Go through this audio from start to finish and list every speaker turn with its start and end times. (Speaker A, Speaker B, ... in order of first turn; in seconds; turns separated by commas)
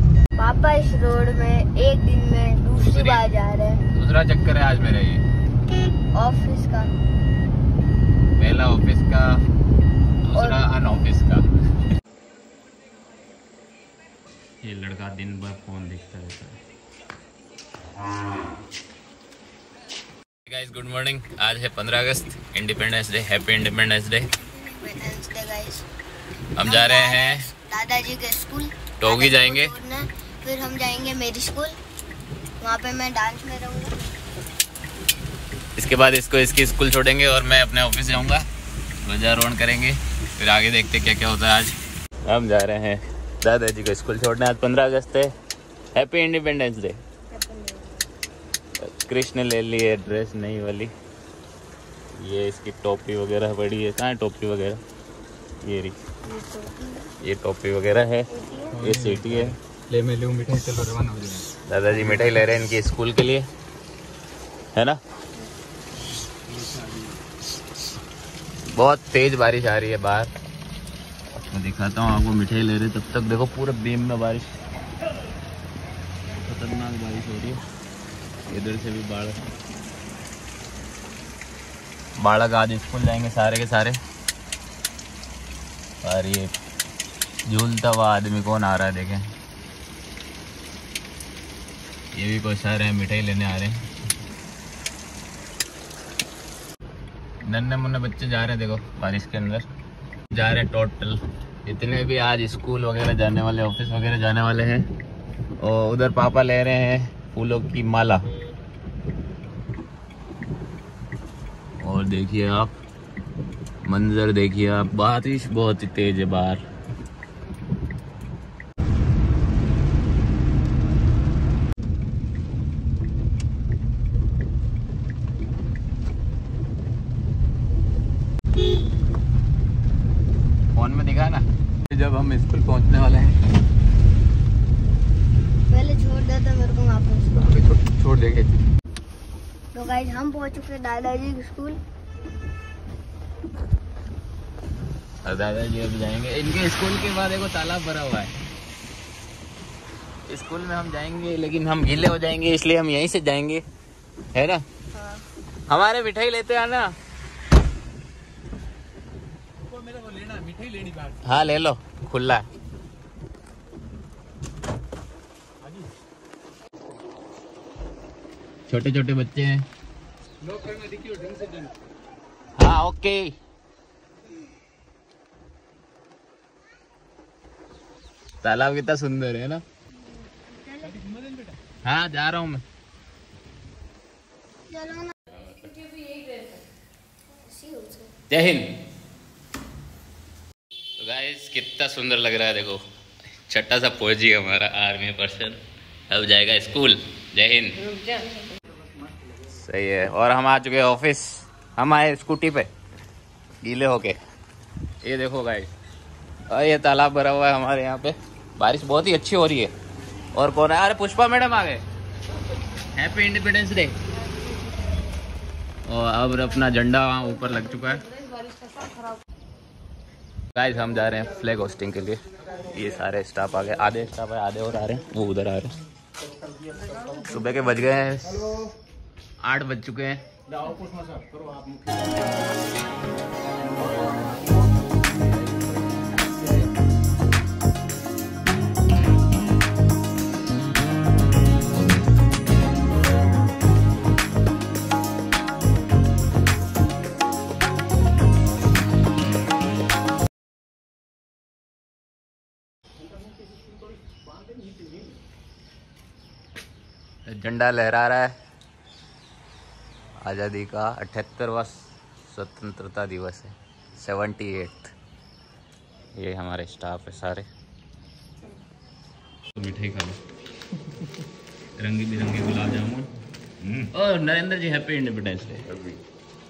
Speaker A: 0.4-3.8, Speaker B: 2.8-3.2, Speaker B: 3.9-5.2, Speaker A: 6.2-7.0, Speaker B: 8.4-9.4, Speaker B: 10.2-11.5, Speaker A: 10.3-10.7, Speaker B: 14.6-16.6, Speaker B: 20.4-24.3, Speaker A: 24.3-25.9, Speaker B: 26.6-27.5, Speaker A: 26.6-31.8, Speaker B: 29.0-29.8, Speaker A: 32.6-34.0, Speaker B: 35.8-38.5, Speaker B: 39.0-45.3, Speaker B: 46.0-47.0, Speaker A: 47.3-48.1, Speaker B: 48.8-50.9, Speaker B: 52.2-54.8, Speaker B: 55.6-56.0, Speaker A: 56.2-57.1, Speaker B: 57.2-63.5, Speaker A: 58.3-58.8, Speaker C: 58.8-61.4, Speaker B: 64.7-65.0, Speaker B: 68.7-70.3, Speaker B: 71.5-74.5, Speaker B: 76.4-77.6, Speaker B: 78.5-79.4, Speaker B: 82.2-84.0, Speaker B: 86.0-86.5, Speaker B: 87.5-89.2, Speaker B: 92.2-93.8, Speaker B: 97.4-99.7, Speaker B: 100.3-104.9, Speaker B: 105.6-108.3, Speaker B: 111.8-112.8, Speaker B: 113.8-116.6, Speaker B: 130.8-133.4, Speaker A: 135.7-137.4, Speaker B: 137.4-138.7, Speaker A: 139.7-141.8, Speaker B: 145.2-148.3, Speaker B: 150.3-153.6, Speaker B: 154.3-154.6, Speaker A: 154.9-155.2, Speaker B: 155.7-156.9, Speaker C: 159.8-161.2, Speaker B: 161.2-162.5, Speaker B: 168.7-169.6, Speaker C: 170.5-171.7, Speaker B: 172.6-173.3, Speaker B: 178.4-179.6, Speaker A: 180.0-181.0, Speaker B: 181.8-182.6, Speaker A: 184.7-185.2, Speaker A: 187.4-188.1, Speaker B: 188.3-188.7, Speaker B: 191.0-192.8, Speaker B: 193.5-198.2, Speaker B: 199.4-202.7, Speaker B: 203.6-204.2, Speaker B: 205.0-205.7, Speaker B: 206.5-209.7, Speaker B: 210.3-211.8, Speaker B: 212.9-214.0, Speaker B: 215.9-218.1, Speaker B: 220.6-225.8, Speaker C: 226.9-227.2, Speaker B: 227.2-228.4, Speaker B: 229.4-230.2, Speaker C: 230.6-231.9, Speaker B: 257.3-258.3, Speaker B: 260.2-264.9, Speaker B: 266.1-267.5, Speaker B: 269.5-270.2, Speaker B: 271.8-273.1, Speaker B: 273.7-275.9